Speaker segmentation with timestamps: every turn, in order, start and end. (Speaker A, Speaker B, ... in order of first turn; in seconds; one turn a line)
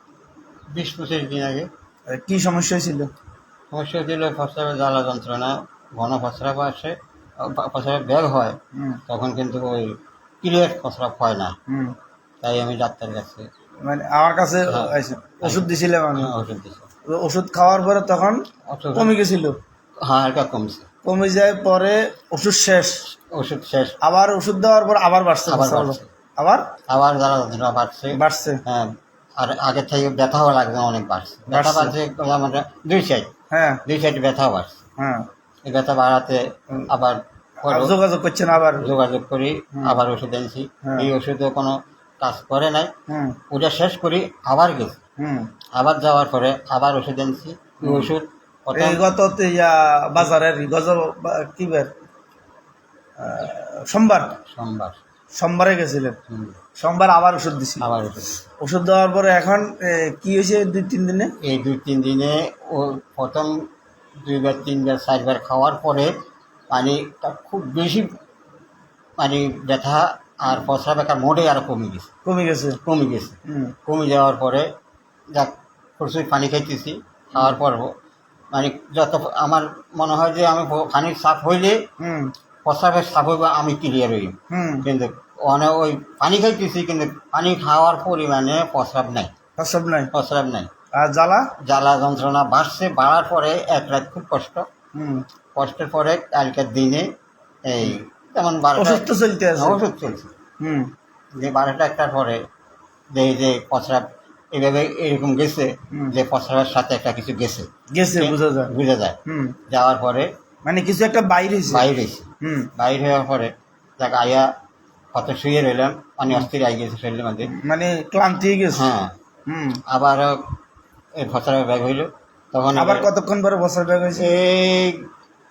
Speaker A: 0.7-1.7
Speaker B: 2.1-3.1
Speaker A: 3.7-8.6
Speaker B: 8.8-9.0
Speaker A: 9.1-11.5
Speaker B: 11.7-11.9
Speaker A: 12.4-13.4
Speaker B: 13.8-16.3
Speaker A: 14.7-16.9
Speaker B: 17.1-18.4
Speaker A: 18.7-19.1
Speaker B: 18.9-19.6
Speaker A: 20.0-20.9
Speaker B: 21.0-23.0
Speaker A: 23.3-24.0
Speaker B: 24.0-26.7
Speaker A: 25.5-26.1
Speaker A: 26.9-33.3
Speaker B: 28.1-28.6
Speaker B: 31.5-31.9
Speaker B: 33.5-33.8
Speaker A: 33.8-34.8
Speaker B: 35.0-35.2
Speaker A: 35.6-37.9
Speaker B: 37.6-38.9
Speaker A: 38.8-42.9
Speaker B: 40.8-41.1
Speaker B: 43.1-43.4
Speaker A: 43.5-45.0
Speaker B: 45.2-45.5
Speaker A: 45.7-49.0
Speaker B: 47.8-48.1
Speaker B: 48.7-51.9
Speaker B: 53.2-54.4
Speaker A: 54.5-55.0
Speaker B: 55.4-56.2
Speaker A: 56.3-56.5
Speaker B: 56.8-57.9
Speaker A: 57.8-58.4
Speaker B: 58.6-61.3
Speaker A: 61.4-63.6
Speaker A: 64.2-66.1
Speaker A: 66.7-68.1
Speaker A: 69.2-72.1
Speaker B: 72.2-72.8
Speaker A: 72.8-74.7
Speaker B: 73.5-73.7
Speaker A: 75.3-77.9
Speaker A: 78.5-81.8
Speaker B: 82.0-82.3
Speaker A: 82.6-89.3
Speaker B: 84.5-84.8
Speaker B: 89.6-90.1
Speaker A: 90.1-90.7
Speaker B: 91.0-91.5
Speaker A: 91.6-94.7
Speaker B: 94.9-95.2
Speaker A: 95.5-97.1
Speaker A: 97.6-99.0
Speaker B: 98.8-99.8
Speaker A: 99.6-100.3
Speaker B: 100.6-100.9
Speaker A: 101.3-102.4
Speaker A: 103.1-109.2
Speaker B: 105.9-106.2
Speaker B: 107.9-108.7
Speaker B: 109.2-109.5
Speaker A: 109.7-110.3
Speaker B: 110.7-111.9
Speaker A: 111.7-114.5
Speaker B: 112.4-112.7
Speaker A: 115.1-117.5
Speaker B: 117.4-118.9
Speaker A: 118.7-119.1
Speaker B: 119.5-119.8
Speaker A: 119.9-120.4
Speaker A: 121.2-123.1
Speaker B: 122.8-124.3
Speaker A: 124.2-125.0